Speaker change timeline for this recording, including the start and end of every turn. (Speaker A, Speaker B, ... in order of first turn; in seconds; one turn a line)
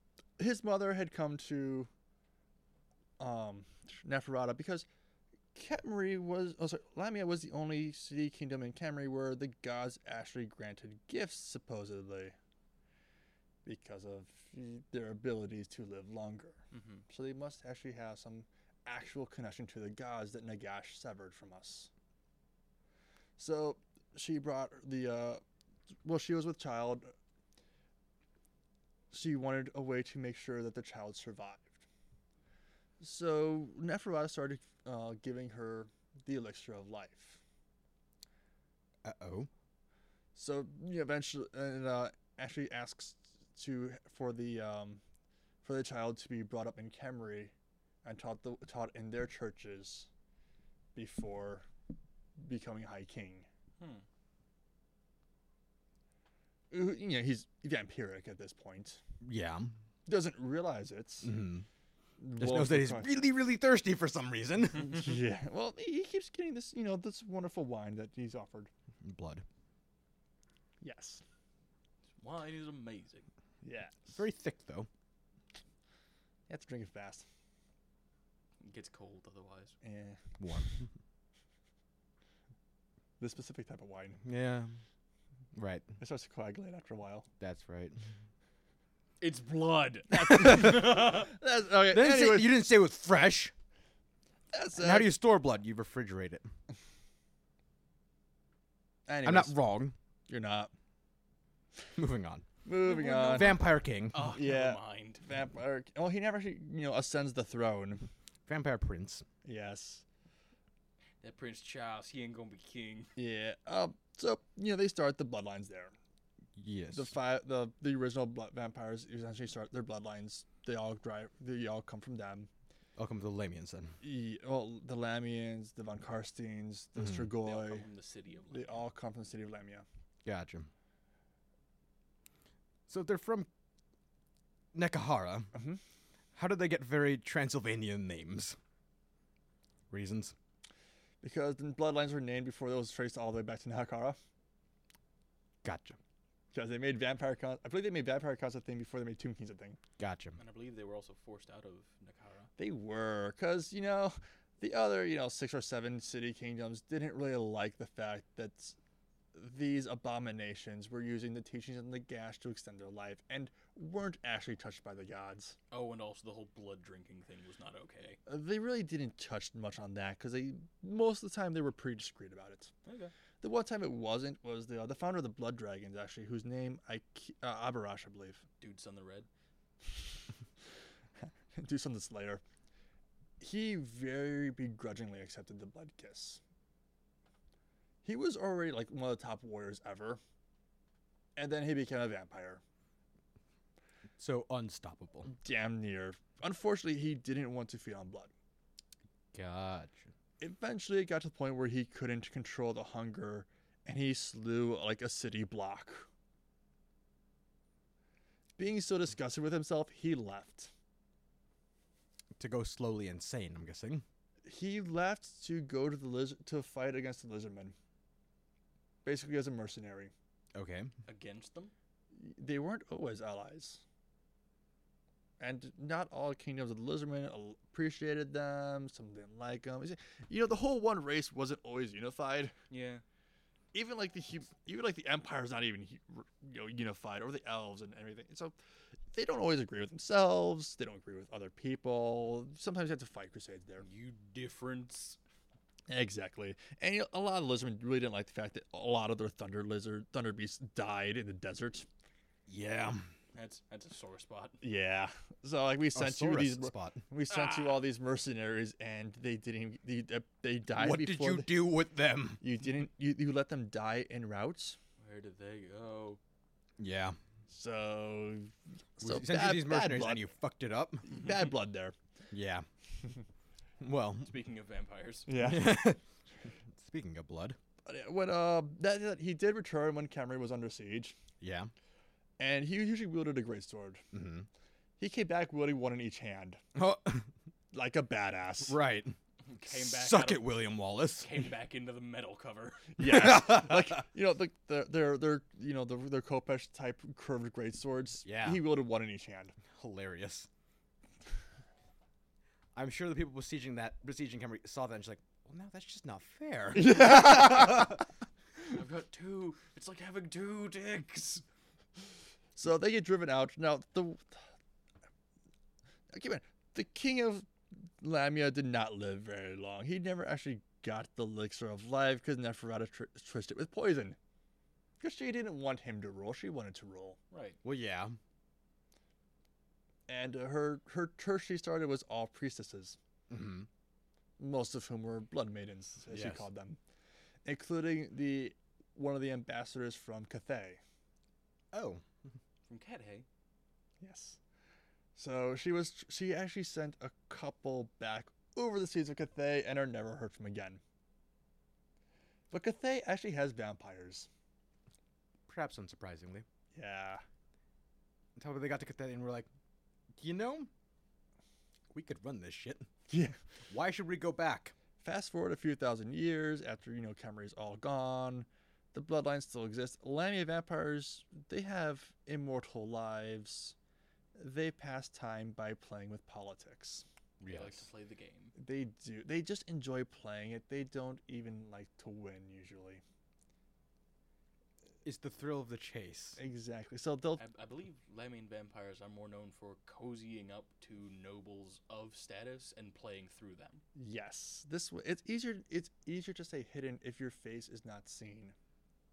Speaker A: 0.4-1.9
Speaker A: 3.2-4.9
Speaker A: 5.5-12.4
Speaker A: 13.7-21.9
Speaker B: 16.7-17.1
Speaker A: 23.4-25.4
Speaker A: 26.0-27.1
Speaker A: 29.1-31.8
Speaker A: 33.0-37.4
Speaker C: 39.0-39.5
Speaker A: 40.4-45.0
Speaker A: 45.6-47.5
Speaker A: 48.0-50.1
Speaker A: 51.0-51.7
Speaker A: 52.4-53.5
Speaker B: 53.8-54.0
Speaker A: 56.7-59.0
Speaker C: 59.2-59.7
Speaker A: 60.1-61.3
Speaker C: 61.2-61.7
Speaker A: 62.2-63.1
Speaker C: 62.4-65.2
Speaker A: 64.8-68.7
Speaker C: 69.0-69.4
Speaker A: 70.8-71.2
Speaker B: 72.2-73.3
Speaker A: 73.6-74.2
Speaker C: 74.1-74.9
Speaker A: 76.5-77.2
Speaker B: 78.6-79.8
Speaker A: 79.8-80.2
Speaker C: 80.4-80.9
Speaker A: 83.2-84.2
Speaker C: 84.2-84.8
Speaker C: 85.5-85.8
Speaker A: 86.0-87.3
Speaker C: 87.4-88.0
Speaker B: 89.2-91.3
Speaker A: 90.1-92.6
Speaker C: 90.3-90.8
Speaker C: 91.9-93.5
Speaker A: 94.5-95.1
Speaker C: 94.8-96.5
Speaker A: 99.1-99.6
Speaker C: 99.2-100.0
Speaker A: 100.3-100.7
Speaker C: 102.0-102.5
Speaker A: 102.7-103.6
Speaker B: 102.9-103.6
Speaker C: 103.2-104.3
Speaker B: 104.1-105.2
Speaker A: 104.2-108.0
Speaker C: 108.5-109.2
Speaker A: 109.4-110.0
Speaker B: 111.2-113.1
Speaker A: 113.2-116.0
Speaker C: 116.6-117.1
Speaker A: 116.9-122.5
Speaker C: 123.0-124.0
Speaker A: 124.0-127.9
Speaker C: 127.0-127.3
Speaker B: 127.4-128.8
Speaker A: 128.5-129.8
Speaker C: 130.2-130.7
Speaker C: 132.9-133.5
Speaker C: 134.7-135.5
Speaker A: 135.5-135.8
Speaker C: 136.3-138.6
Speaker C: 139.9-140.3
Speaker A: 141.2-144.2
Speaker C: 145.6-146.0
Speaker A: 146.5-149.8
Speaker C: 150.0-150.4
Speaker B: 150.4-152.5
Speaker A: 152.6-158.8
Speaker A: 159.3-165.6
Speaker B: 165.7-168.2
Speaker A: 168.3-172.7
Speaker B: 172.9-173.1
Speaker A: 173.4-178.4
Speaker B: 178.6-179.3
Speaker A: 181.6-182.4
Speaker A: 183.4-186.4
Speaker A: 188.0-190.2
Speaker A: 191.4-192.6
Speaker C: 194.2-195.3
Speaker A: 195.3-198.3
Speaker C: 199.3-200.1
Speaker A: 200.4-206.1
Speaker A: 208.6-210.7
Speaker C: 212.4-214.1
Speaker A: 214.4-217.8
Speaker A: 219.1-220.1
Speaker C: 220.6-220.9
Speaker B: 221.1-221.7
Speaker A: 222.1-223.8
Speaker A: 225.4-232.6
Speaker B: 232.7-233.0
Speaker A: 233.7-238.5
Speaker A: 239.1-243.8
Speaker B: 243.8-245.2
Speaker A: 245.9-251.9
Speaker C: 252.5-253.1
Speaker B: 253.3-254.6
Speaker A: 254.6-261.5
Speaker C: 255.9-257.0
Speaker B: 257.3-257.8
Speaker C: 260.7-262.4
Speaker A: 262.4-264.8
Speaker B: 265.0-266.2
Speaker C: 266.8-267.2
Speaker A: 267.5-270.3
Speaker C: 269.0-271.1
Speaker A: 271.1-271.9
Speaker C: 272.3-272.7
Speaker C: 273.8-274.3
Speaker B: 274.2-275.3
Speaker A: 275.3-275.9
Speaker C: 275.4-276.0
Speaker C: 276.8-277.6
Speaker A: 277.9-281.2
Speaker C: 281.4-281.7
Speaker A: 282.4-284.1
Speaker C: 284.1-284.5
Speaker A: 285.0-286.6
Speaker C: 286.8-287.3
Speaker A: 287.7-288.8
Speaker C: 288.7-291.4
Speaker B: 289.5-290.5
Speaker B: 291.2-293.0
Speaker A: 293.0-299.6
Speaker C: 293.0-294.0
Speaker C: 298.2-298.6
Speaker C: 299.7-300.5
Speaker C: 302.8-307.8
Speaker A: 306.8-308.0
Speaker B: 308.7-311.4
Speaker A: 312.6-314.4
Speaker A: 316.1-317.5
Speaker A: 318.0-324.2
Speaker A: 325.0-327.2
Speaker B: 327.3-327.6
Speaker C: 327.6-328.2
Speaker A: 330.1-333.0
Speaker C: 333.3-333.7
Speaker A: 334.4-336.8
Speaker C: 336.1-336.5
Speaker A: 337.4-340.8
Speaker C: 341.7-342.0
Speaker B: 342.7-343.3
Speaker A: 344.0-344.4
Speaker A: 345.2-350.8
Speaker A: 352.5-354.3
Speaker C: 355.5-356.4
Speaker A: 356.7-357.2
Speaker C: 358.4-359.5
Speaker C: 360.2-360.7
Speaker C: 361.9-362.9
Speaker A: 363.1-363.4
Speaker C: 363.7-364.7
Speaker A: 365.0-373.8
Speaker A: 374.4-377.1
Speaker C: 377.4-377.9
Speaker B: 377.5-378.5
Speaker A: 378.6-383.0
Speaker C: 385.0-386.4
Speaker A: 386.4-387.4
Speaker B: 387.4-393.8
Speaker A: 394.0-398.6